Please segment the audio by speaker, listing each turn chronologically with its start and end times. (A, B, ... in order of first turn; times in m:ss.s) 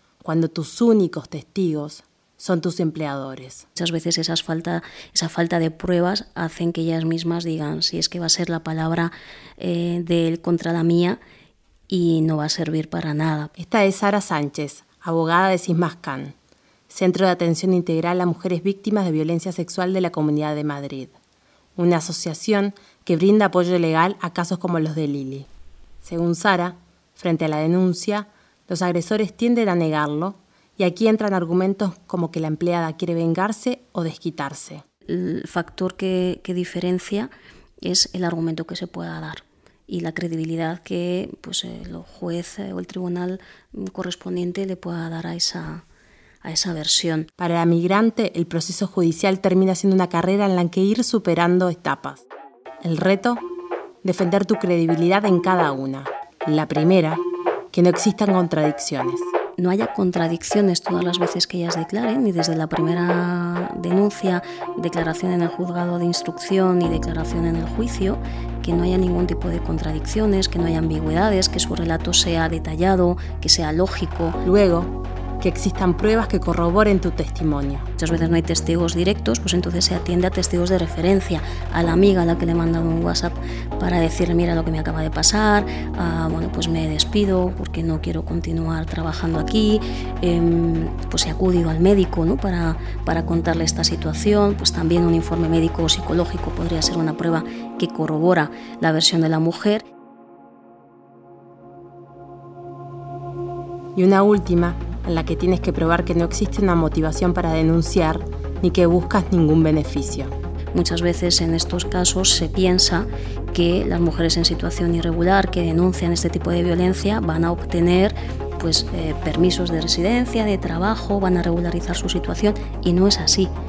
0:00.2-0:03.6 A
0:03.8-0:11.2 B
0:11.9-0:13.5 B
0:13.6-0:16.3 A
0:16.9-0:21.2 A
0:21.8-0:25.5 A
0:26.0-0:34.8 A
0:35.1-0:37.3 B
0:37.8-0:45.8 B
0:46.4-0:47.3 B
0:47.4-0:52.2 A
0:52.8-0:53.4 A
0:54.0-0:59.3 A
0:59.6-1:14.4 B
1:14.4-1:17.9 A
1:18.0-1:39.8 B
1:43.9-1:50.3 A
1:50.7-2:03.5 B